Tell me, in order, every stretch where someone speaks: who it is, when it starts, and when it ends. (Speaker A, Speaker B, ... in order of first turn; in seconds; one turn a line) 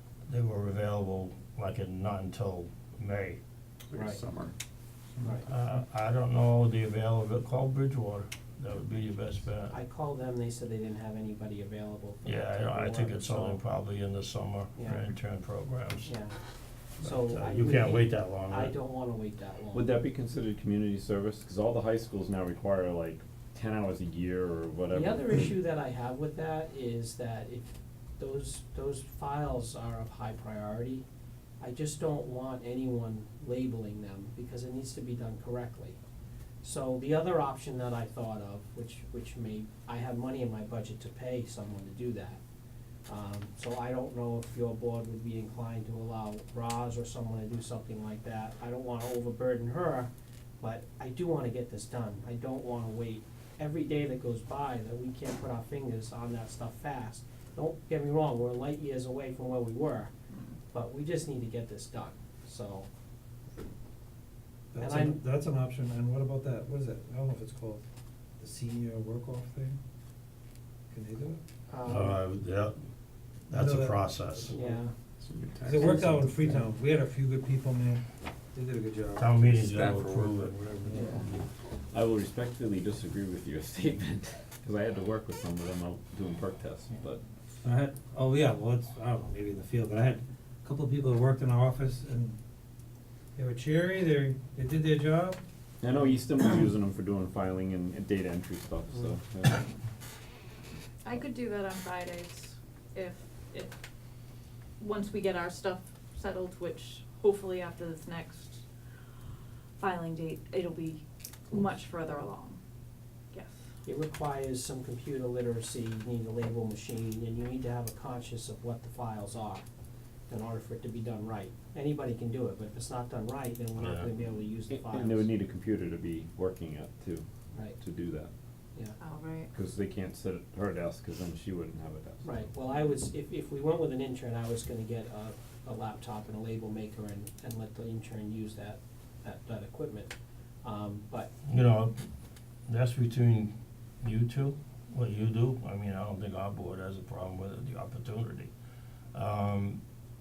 Speaker A: 0.3-3.4
Speaker B: 3.9-4.5
Speaker C: 3.9-4.2
Speaker B: 5.1-5.5
Speaker C: 5.2-5.5
Speaker A: 5.5-9.8
Speaker C: 9.7-13.6
Speaker A: 12.2-16.3
Speaker C: 14.8-15.1
Speaker C: 16.1-16.4
Speaker A: 17.0-18.7
Speaker C: 17.0-19.9
Speaker D: 19.7-25.4
Speaker C: 24.9-31.1
Speaker C: 31.6-36.0
Speaker C: 36.6-42.4
Speaker C: 43.1-60.1
Speaker C: 60.7-62.9
Speaker E: 64.7-67.8
Speaker C: 64.8-65.2
Speaker E: 68.4-69.8
Speaker E: 70.9-71.4
Speaker C: 71.7-72.2
Speaker A: 71.9-72.8
Speaker A: 73.5-74.5
Speaker E: 73.5-74.4
Speaker C: 74.5-74.9
Speaker B: 74.5-76.7
Speaker E: 75.6-79.5
Speaker A: 79.2-80.6
Speaker B: 79.5-81.3
Speaker E: 80.9-81.2
Speaker D: 81.9-87.2
Speaker E: 87.6-92.4
Speaker E: 93.4-95.4
Speaker D: 95.8-99.7
Speaker F: 101.0-103.7
Speaker F: 104.8-108.6
Speaker F: 109.8-112.6
Speaker C: 113.9-119.6
Speaker C: 120.3-125.3
Speaker A: 123.8-124.1
Speaker D: 124.7-128.3
Speaker C: 127.5-127.8
Speaker F: 129.0-129.5
Speaker D: 129.5-132.5
Speaker C: 132.2-141.3
Speaker A: 141.4-142.0
Speaker A: 142.7-148.5
Speaker A: 149.1-149.8